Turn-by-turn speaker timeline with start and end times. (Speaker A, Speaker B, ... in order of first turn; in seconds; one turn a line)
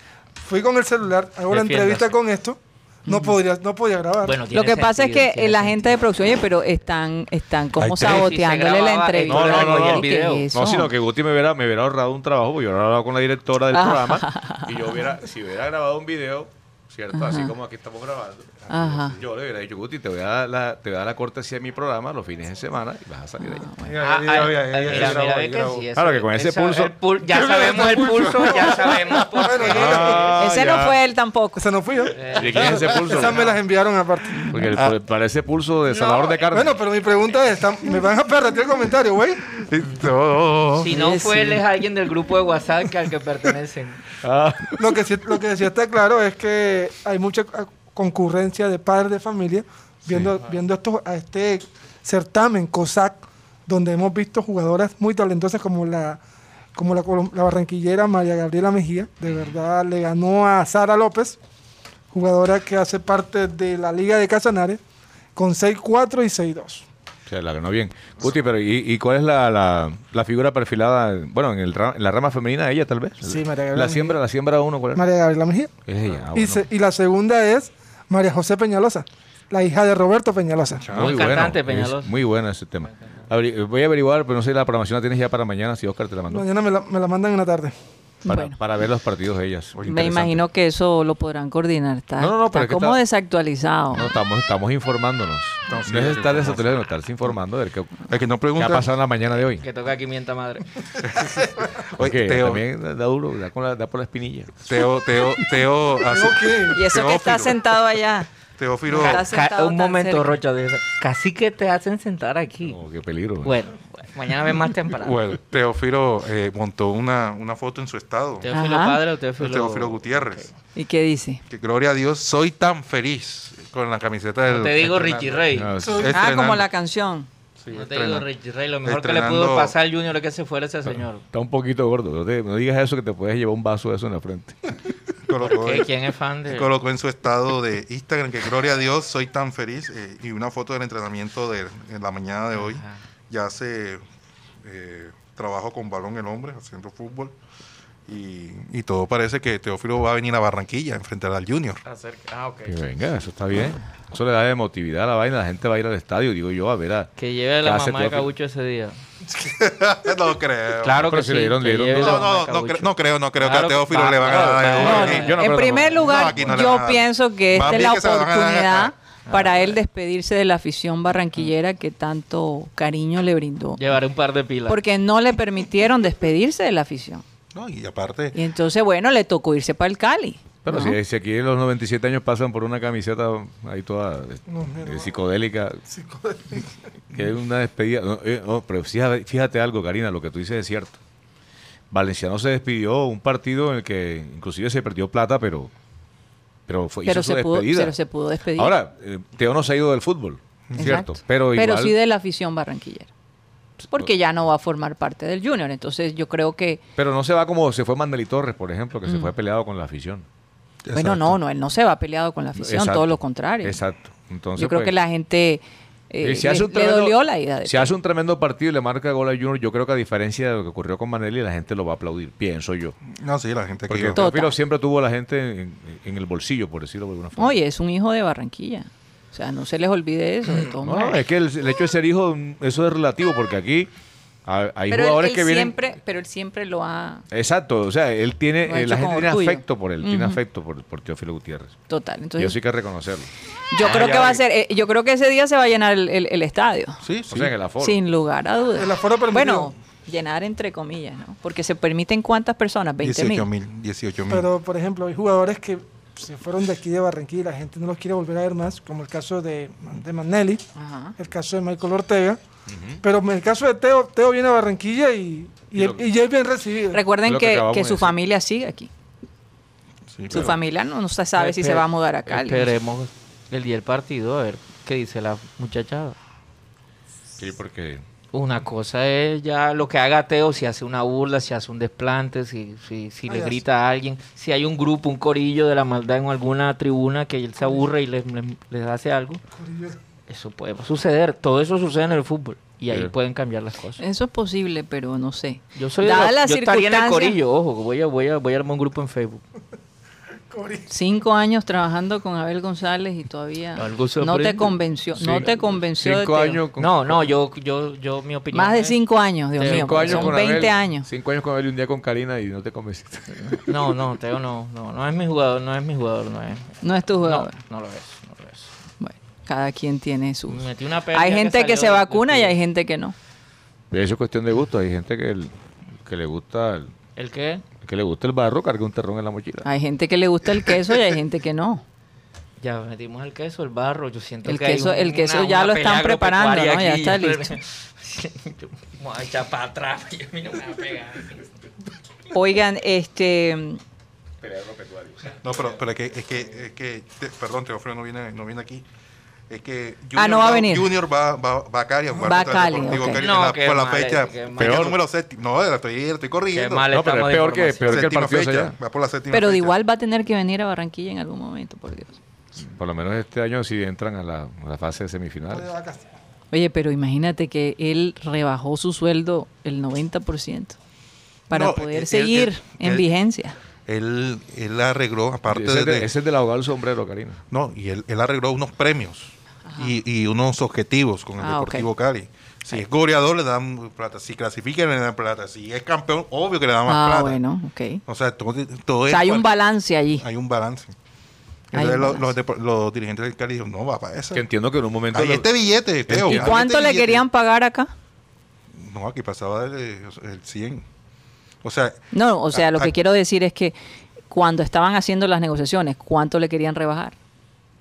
Speaker A: 0.4-4.4
Speaker B: 1.5-2.1
Speaker C: 3.1-3.4
Speaker B: 4.2-5.9
Speaker C: 4.5-10.9
Speaker D: 7.8-8.3
Speaker B: 8.0-10.5
Speaker D: 9.3-23.7
Speaker C: 13.7-15.0
Speaker C: 17.1-17.5
Speaker C: 18.7-19.2
Speaker C: 23.4-24.0
Speaker E: 23.9-25.9
Speaker B: 24.0-30.2
Speaker D: 24.9-25.1
Speaker D: 25.9-26.9
Speaker E: 27.3-29.7
Speaker A: 28.2-30.4
Speaker D: 29.7-31.0
Speaker C: 30.3-31.6
Speaker A: 31.6-34.5
Speaker B: 32.1-33.5
Speaker D: 32.4-33.5
Speaker E: 32.7-33.0
Speaker D: 34.5-36.8
Speaker A: 36.5-39.5
Speaker E: 39.5-40.9
Speaker B: 40.8-44.1
Speaker C: 40.8-41.6
Speaker D: 44.2-44.9
Speaker A: 44.8-56.2
Speaker A: 56.8-61.4
Speaker A: 62.1-64.8
Speaker A: 65.4-66.9
Speaker D: 67.3-75.0
Speaker A: 73.2-74.2
Speaker A: 74.9-75.7
Speaker D: 75.9-76.6
Speaker A: 76.3-80.9
Speaker E: 80.8-81.5
Speaker B: 81.0-82.1
Speaker D: 81.0-86.5
Speaker A: 86.3-87.7
Speaker C: 88.2-88.6
Speaker D: 88.3-90.4
Speaker C: 89.9-94.1
Speaker D: 92.2-93.0
Speaker D: 93.9-99.7
Speaker E: 95.7-96.7
Speaker E: 98.1-98.9
Speaker B: 99.6-100.7
Speaker E: 101.0-102.6
Speaker D: 102.0-104.5
Speaker E: 104.7-107.7
Speaker A: 106.1-106.8
Speaker C: 106.7-108.3
Speaker E: 108.6-109.2
Speaker C: 108.9-110.4
Speaker B: 108.9-112.8
Speaker D: 112.6-113.6
Speaker B: 113.4-115.2
Speaker E: 115.0-118.5
Speaker B: 118.4-120.5
Speaker C: 118.5-119.0
Speaker E: 119.4-120.5
Speaker C: 120.8-121.4
Speaker E: 121.5-126.7
Speaker B: 124.5-125.7
Speaker D: 125.5-126.1
Speaker A: 125.8-126.2
Speaker C: 126.1-127.3
Speaker E: 127.6-128.3
Speaker B: 127.7-131.2
Speaker E: 128.8-129.7
Speaker D: 131.3-134.6
Speaker E: 135.3-135.9
Speaker B: 135.4-136.7
Speaker E: 136.5-144.0
Speaker B: 142.5-143.0
Speaker E: 144.6-147.3
Speaker E: 148.1-151.8
Speaker B: 151.9-152.8
Speaker D: 152.7-157.1
Speaker B: 157.2-159.0
Speaker D: 157.6-158.3
Speaker E: 159.2-161.1
Speaker B: 160.8-165.5
Speaker D: 161.0-162.3
Speaker E: 161.9-165.4
Speaker D: 164.3-166.4
Speaker C: 164.8-173.8
Speaker E: 166.0-168.9
Speaker B: 169.3-169.8
Speaker B: 173.8-174.8
Speaker C: 174.7-177.2
Speaker E: 177.5-178.4
Speaker C: 178.3-181.0
Speaker D: 180.6-185.8
Speaker A: 184.5-185.1
Speaker A: 185.9-186.8
Speaker D: 187.1-191.0
Speaker D: 191.9-195.7
Speaker D: 196.7-198.0
Speaker C: 197.1-198.8
Speaker D: 198.6-202.0
Speaker E: 200.7-201.0
Speaker C: 200.8-203.1
Speaker C: 203.9-206.8
Speaker D: 207.0-210.3
Speaker C: 209.1-209.3
Speaker E: 210.9-211.4
Speaker C: 210.9-213.8
Speaker D: 212.6-214.9
Speaker C: 214.6-218.0
Speaker D: 216.2-223.0
Speaker E: 223.1-224.2
Speaker D: 223.9-227.6
Speaker C: 224.2-224.6
Speaker C: 227.4-231.2
Speaker D: 230.8-233.9
Speaker D: 234.4-235.8
Speaker C: 234.9-237.3
Speaker D: 237.3-241.8
Speaker C: 238.6-240.4
Speaker C: 241.9-242.6
Speaker D: 242.4-244.4
Speaker C: 243.7-247.0
Speaker E: 247.0-247.6
Speaker D: 247.3-248.0
Speaker C: 247.8-253.5
Speaker A: 248.8-249.7
Speaker E: 253.0-254.5
Speaker A: 254.3-260.6
Speaker C: 260.8-261.1
Speaker A: 261.2-262.4
Speaker D: 262.7-263.0
Speaker A: 263.0-267.0
Speaker D: 265.8-266.1
Speaker C: 266.9-268.9
Speaker D: 267.2-268.1
Speaker E: 270.1-270.6
Speaker C: 270.3-272.7
Speaker B: 271.4-276.2
Speaker D: 277.4-278.0
Speaker B: 278.3-289.4
Speaker A: 283.3-283.6
Speaker A: 289.6-290.0
Speaker B: 290.3-294.0
Speaker C: 294.0-297.4
Speaker B: 295.8-299.4
Speaker A: 300.5-300.9
Speaker C: 300.9-306.6
Speaker B: 303.8-304.8
Speaker D: 305.2-307.3
Speaker B: 306.8-309.0
Speaker C: 308.5-311.1
Speaker B: 309.6-310.4
Speaker D: 309.7-313.6
Speaker B: 313.4-318.7
Speaker C: 316.8-317.6
Speaker C: 319.0-323.1
Speaker B: 320.5-322.6
Speaker D: 323.9-325.5
Speaker D: 326.1-326.9
Speaker B: 327.2-327.7
Speaker D: 327.8-329.7
Speaker C: 329.6-331.8
Speaker B: 332.6-341.6
Speaker C: 334.4-337.6
Speaker C: 342.3-343.8
Speaker D: 344.4-345.4
Speaker E: 345.4-348.9
Speaker E: 349.5-356.9
Speaker C: 350.1-350.9
Speaker C: 352.2-353.3
Speaker B: 353.2-354.9
Speaker D: 354.6-355.0
Speaker B: 356.5-358.3
Speaker D: 356.9-358.8
Speaker E: 357.9-359.8
Speaker C: 359.3-362.2
Speaker D: 362.6-365.7
Speaker A: 365.5-366.1
Speaker C: 366.5-370.8
Speaker C: 371.5-373.6
Speaker E: 371.5-373.1
Speaker E: 373.9-376.1
Speaker D: 375.5-377.4
Speaker E: 377.5-387.4
Speaker C: 379.6-379.9
Speaker C: 381.4-381.9
Speaker C: 386.9-388.0
Speaker E: 388.1-389.6
Speaker C: 389.1-390.2
Speaker E: 390.1-390.9
Speaker E: 391.7-394.5
Speaker C: 391.7-392.3
Speaker D: 394.3-395.5
Speaker E: 395.1-397.2
Speaker D: 396.1-396.6
Speaker C: 396.2-397.9
Speaker E: 398.8-400.9
Speaker E: 401.6-402.9
Speaker C: 402.1-403.8
Speaker C: 404.3-407.1